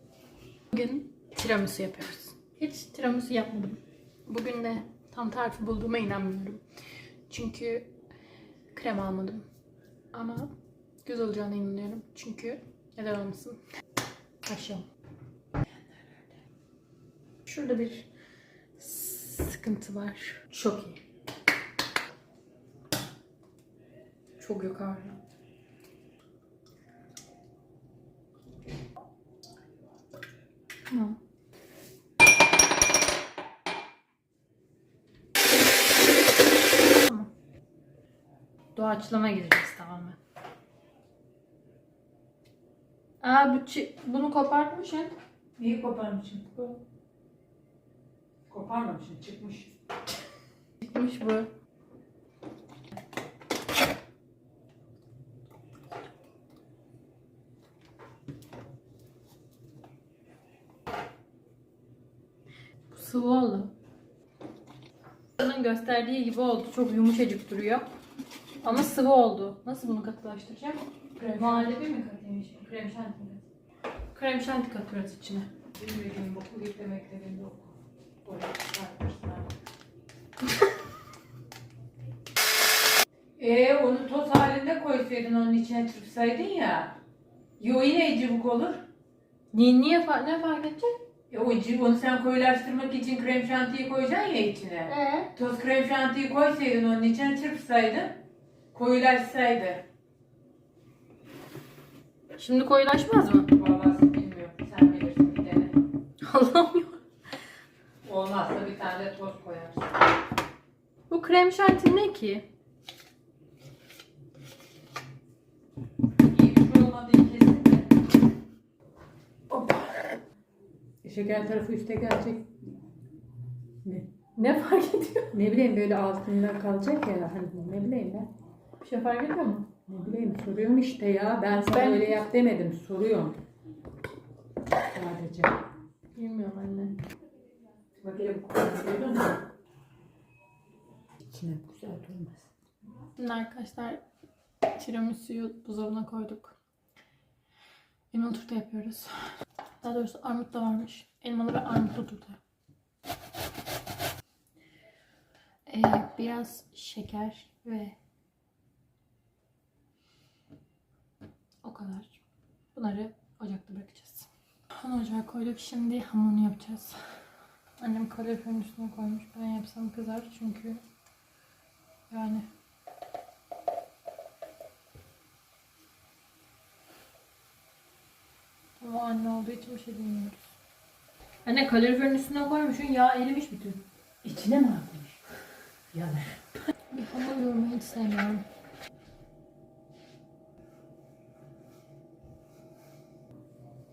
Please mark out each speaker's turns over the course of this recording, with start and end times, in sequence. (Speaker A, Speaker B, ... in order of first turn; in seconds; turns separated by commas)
Speaker A: 0.7-6.6, Speaker A: 7.3-7.9, Speaker A: 8.7-9.5, Speaker A: 10.1-10.5, Speaker A: 11.0-13.6, Speaker A: 14.4-14.9, Speaker A: 17.4-18.1, Speaker A: 18.8-21.0, Speaker A: 24.4-25.2, Speaker A: 30.9-31.2, Speaker A: 37.0-37.3, Speaker A: 38.7-40.2, Speaker A: 43.2-45.1, Speaker B: 45.6-46.7, Speaker B: 48.5-49.7, Speaker A: 50.8-51.5, Speaker A: 62.9-63.7, Speaker A: 65.4-67.9, Speaker A: 68.6-73.5, Speaker B: 71.2-71.7, Speaker A: 74.1-75.5, Speaker B: 75.7-79.5, Speaker B: 83.4-87.0, Speaker B: 87.6-88.8, Speaker A: 89.5-90.9, Speaker B: 91.3-98.2, Speaker A: 94.9-95.3, Speaker B: 98.7-99.8, Speaker A: 102.4-103.5, Speaker B: 103.5-105.8, Speaker A: 106.2-107.0, Speaker B: 108.0-109.9, Speaker A: 111.1-112.5, Speaker B: 116.2-118.0, Speaker B: 121.0-122.6, Speaker B: 123.8-124.1, Speaker A: 124.3-125.3, Speaker B: 125.3-128.3, Speaker A: 128.8-129.7, Speaker B: 129.9-133.4, Speaker A: 131.6-132.2, Speaker B: 134.9-135.6, Speaker A: 136.1-137.0, Speaker B: 138.0-139.4, Speaker B: 141.3-142.5, Speaker A: 143.2-144.0, Speaker A: 144.7-146.6, Speaker A: 148.1-149.2, Speaker A: 149.8-152.4, Speaker A: 155.7-157.9, Speaker A: 161.6-162.2, Speaker A: 162.7-167.0, Speaker A: 167.8-170.8, Speaker A: 172.1-172.5, Speaker A: 178.8-180.5, Speaker A: 181.4-183.8, Speaker B: 184.2-185.2, Speaker B: 185.9-186.4, Speaker A: 186.9-188.4